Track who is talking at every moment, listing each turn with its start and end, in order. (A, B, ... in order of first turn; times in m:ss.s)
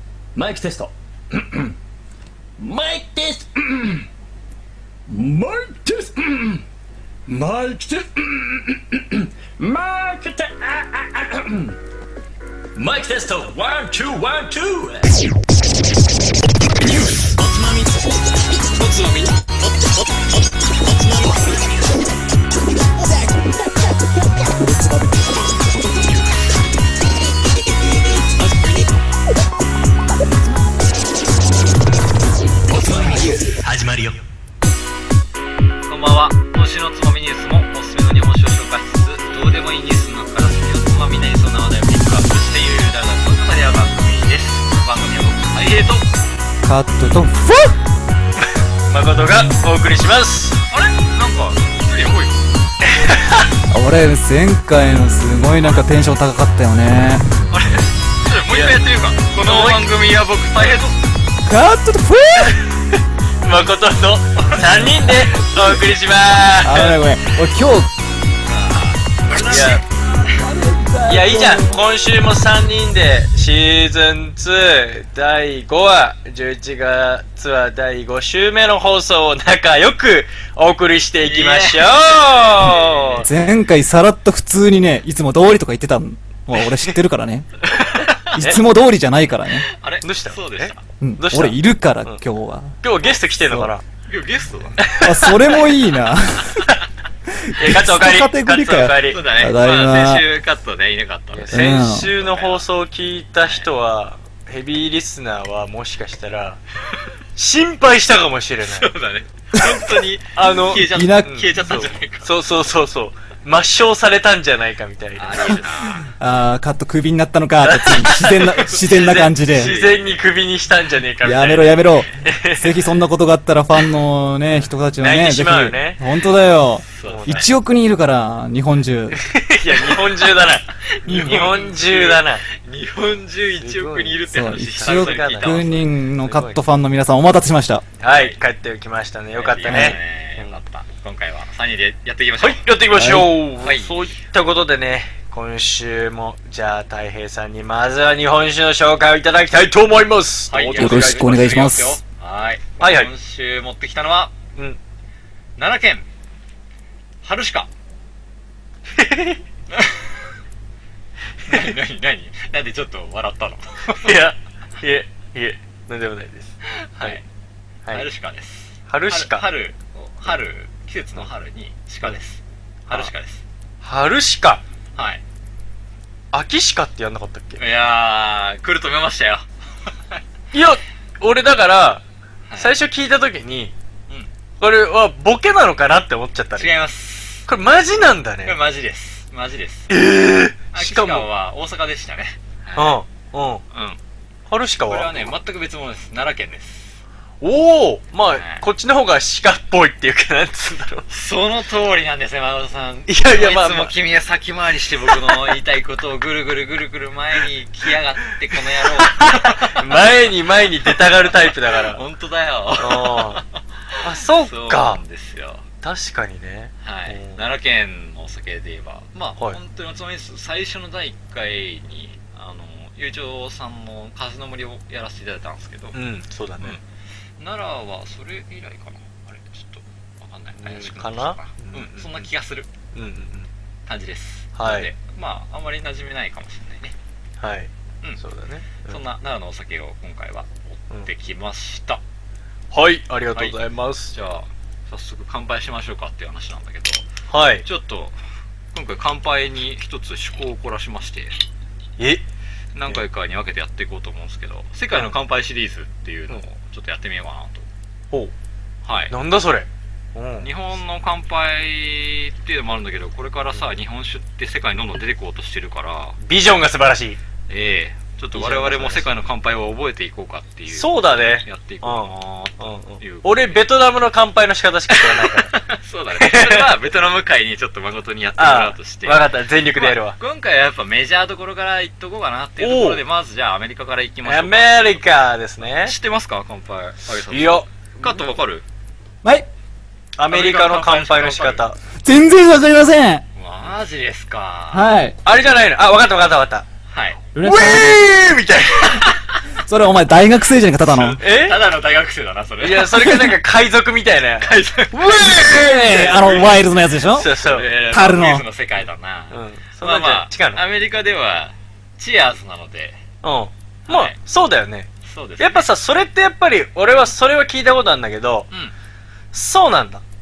0:00.4-0:01.8 A
0:02.6-0:04.1 A
0:05.1-0:06.7 A
0:07.3-0:11.8 A
0:12.8-0:15.1 A
0:17.1-0:18.2 B
0:18.8-0:19.2 C
0:21.0-0:21.4 B
0:26.0-0:26.2 C
0:32.8-0:33.0 A
0:33.0-0:34.2 B
0:35.9-0:46.2 C
0:46.6-0:47.8 D
0:48.9-0:50.6 B
0:50.7-0:52.5 C
0:52.8-0:53.5 B
0:53.7-0:57.3 D
0:57.5-1:01.0 C
0:58.5-0:58.8 B
0:59.4-0:59.9 B
1:01.4-1:02.7 D
1:02.4-1:07.0 B
1:04.4-1:04.7 C
1:05.1-1:05.8 D
1:06.6-1:07.9 D
1:08.5-1:10.4 C
1:09.3-1:09.8 B
1:10.2-1:11.8 D
1:11.0-1:23.3 B
1:21.2-1:23.3 C
1:23.2-1:27.6 D
1:26.6-1:26.9 B
1:27.7-1:28.3 C
1:28.2-1:29.7 D
1:29.6-1:30.8 C
1:30.0-1:32.2 B
1:31.0-1:32.8 D
1:32.8-1:33.8 B
1:34.1-1:35.0 C
1:34.8-1:35.6 B
1:35.0-1:36.7 D
1:37.4-1:40.2 D
1:37.6-1:39.2 B
1:39.0-1:42.6 C
1:41.3-1:46.6 B
1:41.5-1:42.1 D
1:43.4-1:43.7 C
1:47.4-1:48.9 B
1:48.6-1:52.4 C
1:49.6-1:55.7 B
1:50.7-1:51.9 D
1:55.2-1:56.1 C
1:56.2-1:59.8 D
1:57.6-2:02.8 B
1:58.6-2:00.3 C
2:01.2-2:09.2 D
2:04.5-2:06.0 B
2:06.9-2:07.4 C
2:07.0-2:07.5 B
2:09.1-2:12.4 B
2:09.8-2:15.9 C
2:11.2-2:11.5 D
2:13.6-2:16.6 B
2:14.3-2:17.9 D
2:18.0-2:20.6 B
2:18.1-2:18.4 C
2:19.4-2:23.0 C
2:19.7-2:20.0 D
2:22.4-2:31.7 B
2:22.9-2:23.4 D
2:23.6-2:24.2 C
2:30.5-2:34.4 C
2:30.8-2:32.0 D
2:32.8-2:33.1 B
2:35.6-2:36.1 C
2:37.2-2:37.7 C
2:39.0-2:39.4 B
2:39.7-2:40.3 C
2:41.4-2:44.2 C
2:44.0-2:47.2 B
2:46.7-2:47.2 C
2:47.9-2:53.4 C
2:48.9-2:49.5 B
2:53.8-2:54.6 B
2:55.0-2:55.2 C
2:56.3-2:57.6 B
2:57.6-2:59.5 C
3:00.5-3:02.0 B
3:02.5-3:02.8 C
3:02.6-3:03.7 B
3:04.6-3:06.7 B
3:06.6-3:07.5 C
3:07.5-3:08.6 B
3:08.4-3:10.0 C
3:09.9-3:11.3 B
3:10.7-3:13.0 C
3:12.8-3:13.6 B
3:13.7-3:14.0 C
3:14.5-3:15.3 B
3:14.9-3:17.0 C
3:17.4-3:21.1 B
3:18.3-3:18.6 C
3:21.1-3:30.3 C
3:23.1-3:23.9 B
3:25.2-3:25.6 B
3:29.0-3:32.0 B
3:30.8-3:35.7 C
3:32.8-3:33.4 B
3:34.0-3:35.0 B
3:35.8-3:37.4 B
3:36.8-3:46.0 C
3:45.9-3:46.8 B
3:47.4-3:52.7 C
3:50.6-3:52.3 B
3:52.9-3:53.5 B
3:53.9-3:57.0 C
3:54.6-3:54.9 B
3:57.4-3:59.0 B
3:58.8-4:02.0 C
4:02.7-4:04.1 B
4:04.1-4:07.1 C
4:07.3-4:07.6 B
4:07.6-4:08.2 C
4:08.7-4:11.4 C
4:12.0-4:12.2 B
4:12.7-4:17.7 C
4:18.8-4:19.1 C
4:19.1-4:20.5 B
4:20.4-4:26.2 C
4:26.2-4:27.2 B
4:27.5-4:33.7 C
4:28.3-4:29.3 B
4:30.7-4:35.5 B
4:34.9-4:45.1 C
4:36.2-4:36.7 B
4:38.4-4:40.2 B
4:42.6-4:43.0 B
4:44.2-4:46.0 B
4:45.6-4:48.6 C
4:47.3-4:48.2 B
4:50.2-4:51.8 B
4:50.3-4:51.7 C
4:52.0-4:53.3 D
4:53.4-4:54.9 C
4:54.7-4:55.2 D
4:55.2-4:56.7 B
4:56.9-4:57.2 C
4:57.4-4:58.1 D
4:57.4-4:59.0 B
4:58.9-4:59.4 C
4:59.7-5:01.2 D
5:00.9-5:03.4 C
5:01.1-5:01.7 B
5:02.6-5:04.5 B
5:04.4-5:06.6 C
5:04.9-5:07.3 D
5:07.1-5:07.7 B
5:07.3-5:13.0 C
5:07.9-5:08.4 D
5:09.3-5:10.6 B
5:13.2-5:18.5 B
5:13.9-5:14.2 C
5:15.0-5:15.7 C
5:19.3-5:20.0 B